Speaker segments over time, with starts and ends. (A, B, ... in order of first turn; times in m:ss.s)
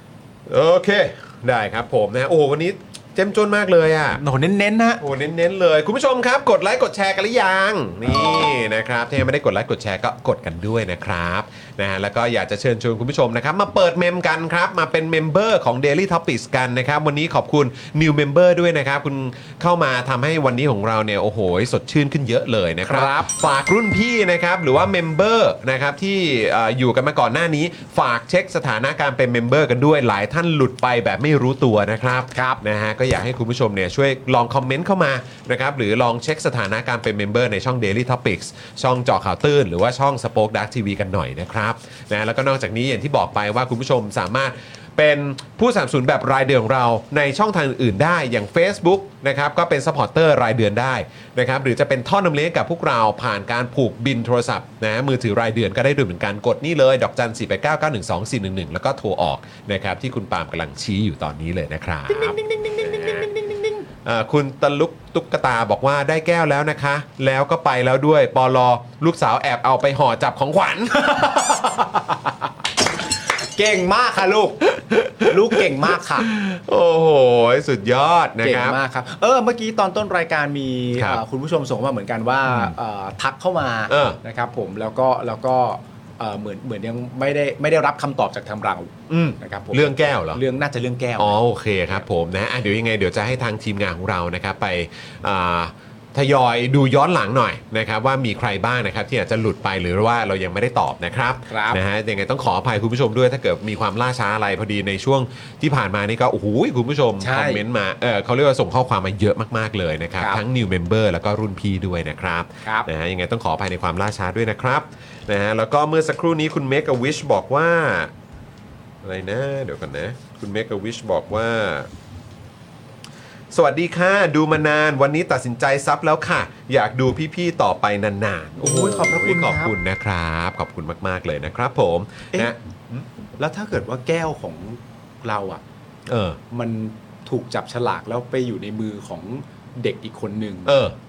0:00.4-0:04.2 A
0:04.2-0:05.0 B
0:05.0-1:03.3 A
0:22.8-0:23.3 B
0:32.3-0:32.6 B
1:02.1-1:03.8 B
1:04.0-1:11.0 A
1:10.9-1:12.5 B
1:13.4-1:14.6 B
1:14.7-1:15.7 A
1:15.2-1:16.3 B
1:16.2-1:18.8 A
1:18.4-1:31.4 B
1:20.9-1:21.2 A
1:22.5-1:22.7 A
1:23.9-1:24.2 A
1:29.1-1:30.4 A
1:31.2-1:58.1 A
1:41.5-1:41.8 B
1:47.2-1:47.6 B
1:59.0-2:01.9 A
2:03.5-2:13.0 A
2:08.6-2:09.7 B
2:13.4-2:15.6 B
2:16.1-2:16.4 A
2:16.5-2:20.8 B
2:20.6-2:20.9 A